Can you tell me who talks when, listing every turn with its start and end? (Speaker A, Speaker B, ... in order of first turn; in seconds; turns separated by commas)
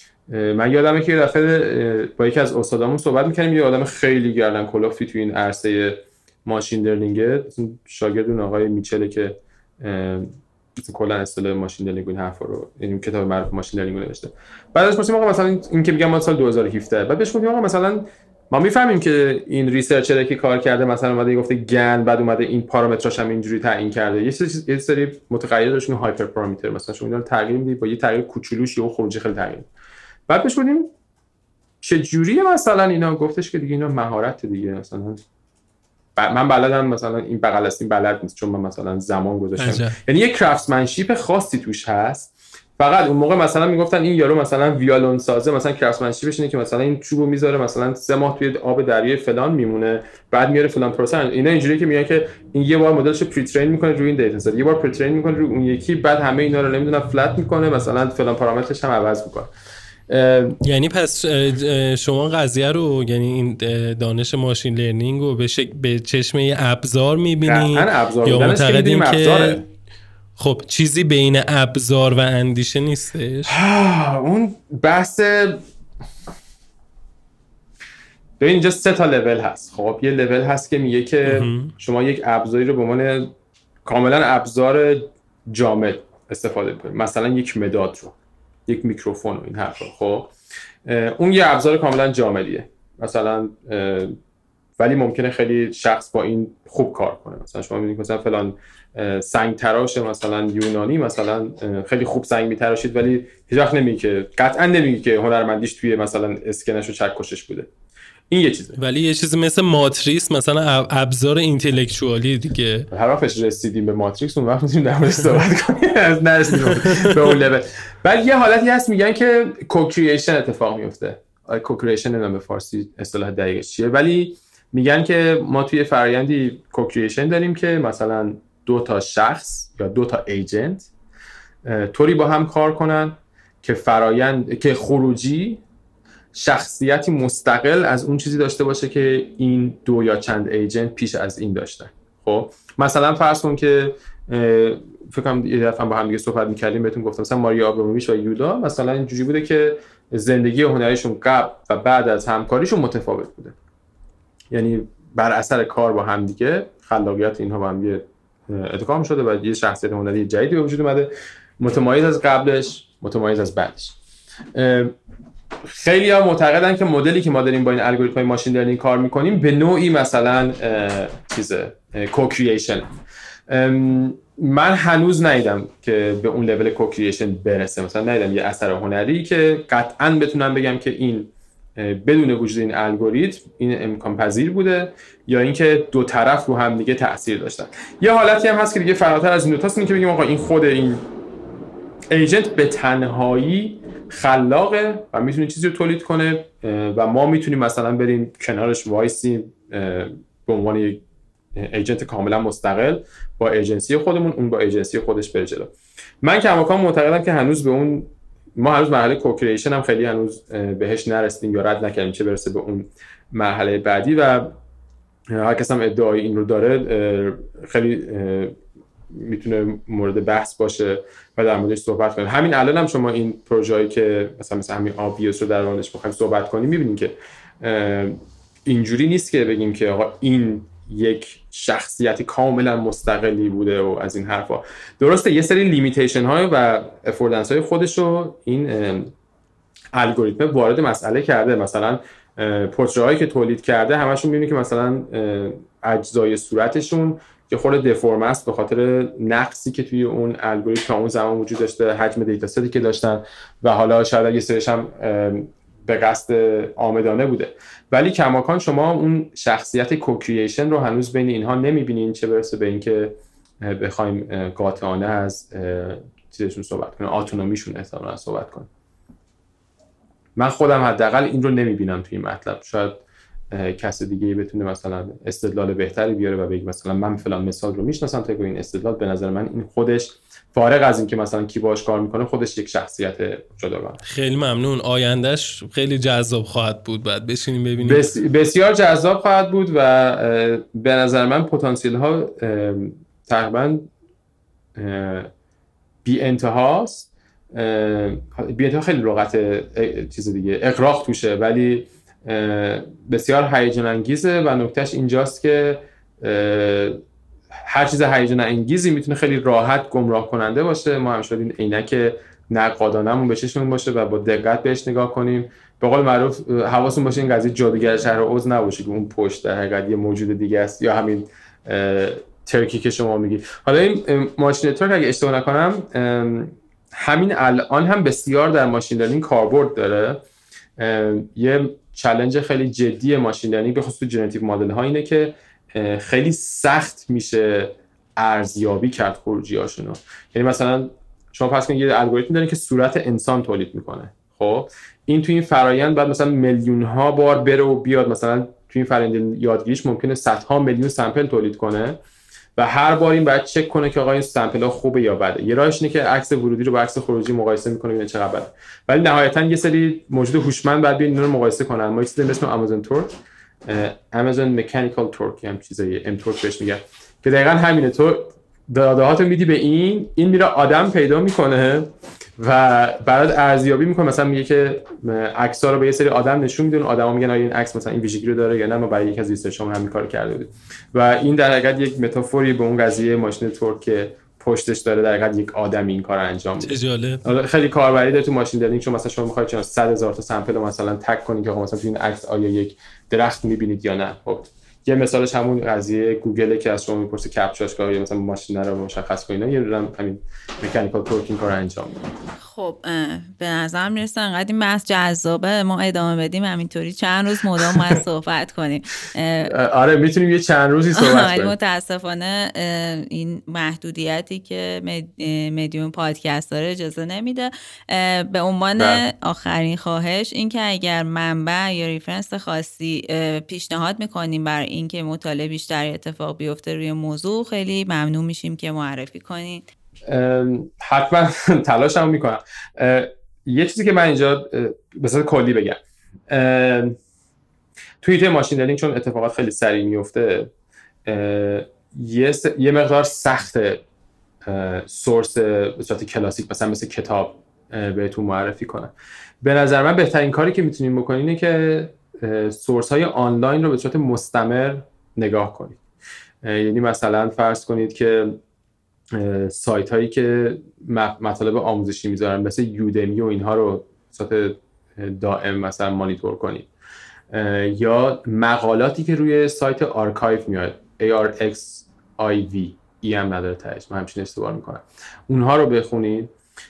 Speaker A: 0.3-29.7, Speaker A: 30.3-30.9, Speaker A: 31.8-35.2, Speaker A: 36.2-59.5, Speaker B: 39.6-40.0, Speaker A: 60.1-60.6, Speaker B: 60.6-69.7, Speaker A: 67.4-69.6, Speaker B: 70.4-73.6, Speaker A: 73.5-75.6, Speaker A: 78.4-83.3, Speaker B: 81.3-81.7, Speaker A: 83.8-88.2, Speaker A: 88.7-90.3, Speaker A: 90.8-94.2, Speaker A: 94.8-107.7, Speaker A: 108.3-108.8, Speaker B: 108.8-112.9, Speaker A: 112.9-130.9, Speaker B: 116.6-117.2, Speaker A: 131.7-135.6, Speaker A: 136.3-153.6, Speaker A: 154.5-164.0, Speaker A: 164.6-164.9, Speaker A: 165.7-172.9, Speaker A: 173.5-191.0, Speaker A: 192.1-201.0, Speaker A: 201.6-214.5, Speaker A: 215.3-218.6, Speaker A: 219.1-239.1, Speaker A: 239.9-268.7, Speaker A: 270.4-284.0, Speaker B: 284.0-288.1, Speaker A: 287.8-293.9, Speaker A: 294.8-295.3, Speaker A: 296.1-307.0, Speaker A: 307.6-330.2, Speaker A: 330.8-352.0, Speaker A: 352.6-363.1, Speaker A: 363.7-402.1, Speaker B: 386.6-387.2, Speaker C: 402.4-409.5, Speaker A: 407.6-407.9, Speaker A: 409.4-411.6, Speaker C: 410.9-429.7, Speaker A: 418.8-419.0, Speaker A: 430.1-437.0, Speaker A: 438.0-440.5, Speaker A: 441.1-443.8, Speaker A: 444.5-455.8, Speaker A: 456.4-458.4, Speaker A: 459.1-466.7, Speaker A: 467.3-476.3